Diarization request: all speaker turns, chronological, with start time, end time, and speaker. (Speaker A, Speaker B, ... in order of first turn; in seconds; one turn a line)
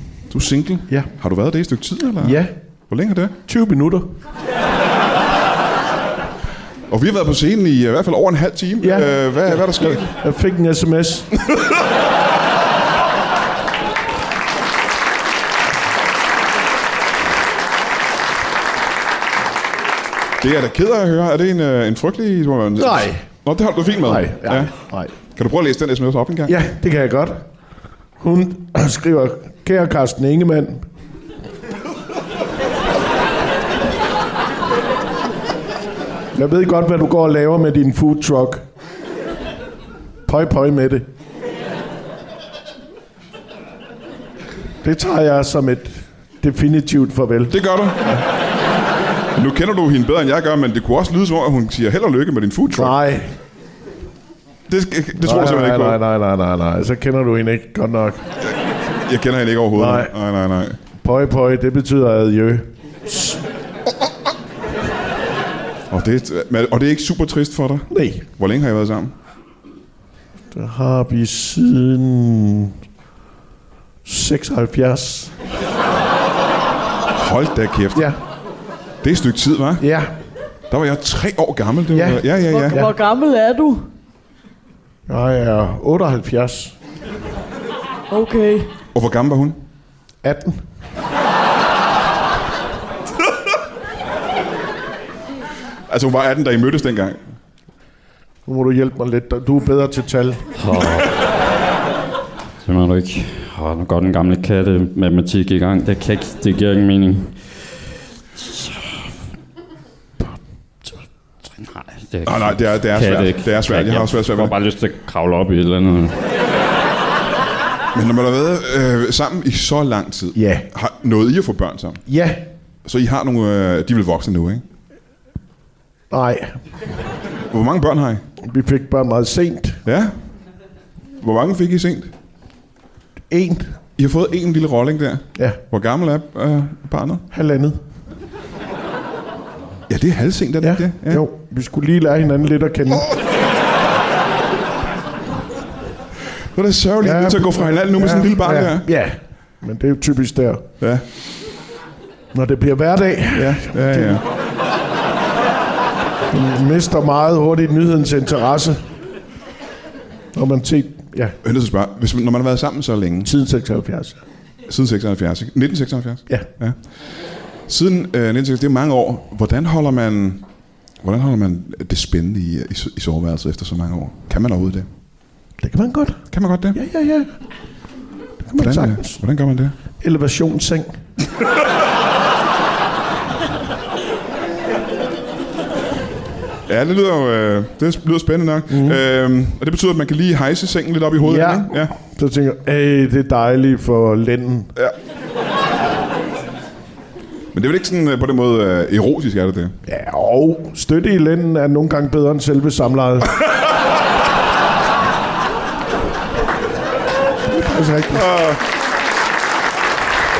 Speaker A: 0.3-3.3
Speaker B: 2.2-2.5
Speaker B: 3.5-4.1
Speaker A: 6.9-10.1
Speaker B: 8.8-11.3
Speaker A: 20.4-26.6
Speaker B: 22.8-23.3
Speaker B: 24.0-25.1
Speaker B: 26.4-27.4
Speaker B: 28.2-30.8
Speaker B: 36.3-38.6
Speaker B: 40.2-41.0
Speaker B: 44.8-47.5
Speaker A: 47.5-48.1
Speaker A: 49.3-52.9
Speaker B: 52.7-53.3
Speaker A: 54.7-56.0
Speaker B: 55.2-58.2
Speaker A: 59.0-60.8
Speaker B: 59.8-60.1
Speaker B: 61.0-63.4
Speaker A: 65.9-69.1
Speaker B: 67.9-68.2
Speaker B: 70.5-72.7
Speaker B: 74.0-75.3
Speaker A: 77.1-78.1
Speaker A: 79.0-79.8
Speaker B: 79.8-80.1
Speaker A: 80.7-82.8
Speaker B: 81.9-82.9
Speaker C: 82.5-83.8
Speaker B: 85.1-86.7
Speaker C: 88.1-88.7
Speaker A: 88.9-89.6
Speaker B: 90.2-90.6
Speaker A: 95.9-97.2
Speaker B: 98.5-100.5
Speaker D: 100.5-101.2
Speaker D: 102.6-109.1
Speaker D: 111.6-116.2
Speaker A: 112.2-114.5
Speaker A: 117.9-122.0
Speaker B: 120.3-120.7
Speaker B: 122.1-122.4
Speaker A: 122.8-124.6
Speaker B: 126.1-126.6
Speaker A: 127.5-128.2
Speaker B: 128.4-129.8
Speaker A: 129.8-130.1
Speaker A: 131.2-132.1
Speaker B: 133.3-133.8
Speaker A: 134.0-137.2
Speaker B: 137.3-137.8
Speaker A: 139.9-141.2
Speaker B: 140.6-143.1
Speaker A: 146.5-148.9
Speaker B: 147.0-150.7
Speaker B: 152.3-154.2
Speaker A: 153.3-154.2
Speaker B: 156.3-158.8
Speaker B: 160.3-161.3
Speaker A: 161.4-163.3
Speaker B: 163.2-164.2
Speaker A: 164.7-166.8
Speaker A: 167.7-170.4
Speaker A: 171.0-174.9
Speaker B: 175.6-177.3
Speaker A: 176.3-176.8
Speaker B: 178.4-179.2
Speaker A: 178.6-179.7
Speaker B: 180.0-181.0
Speaker A: 186.7-191.9
Speaker B: 188.7-189.0
Speaker B: 191.2-194.7
Speaker A: 197.5-199.7
Speaker B: 199.8-203.4
Speaker B: 207.4-208.3
Speaker A: 208.1-208.6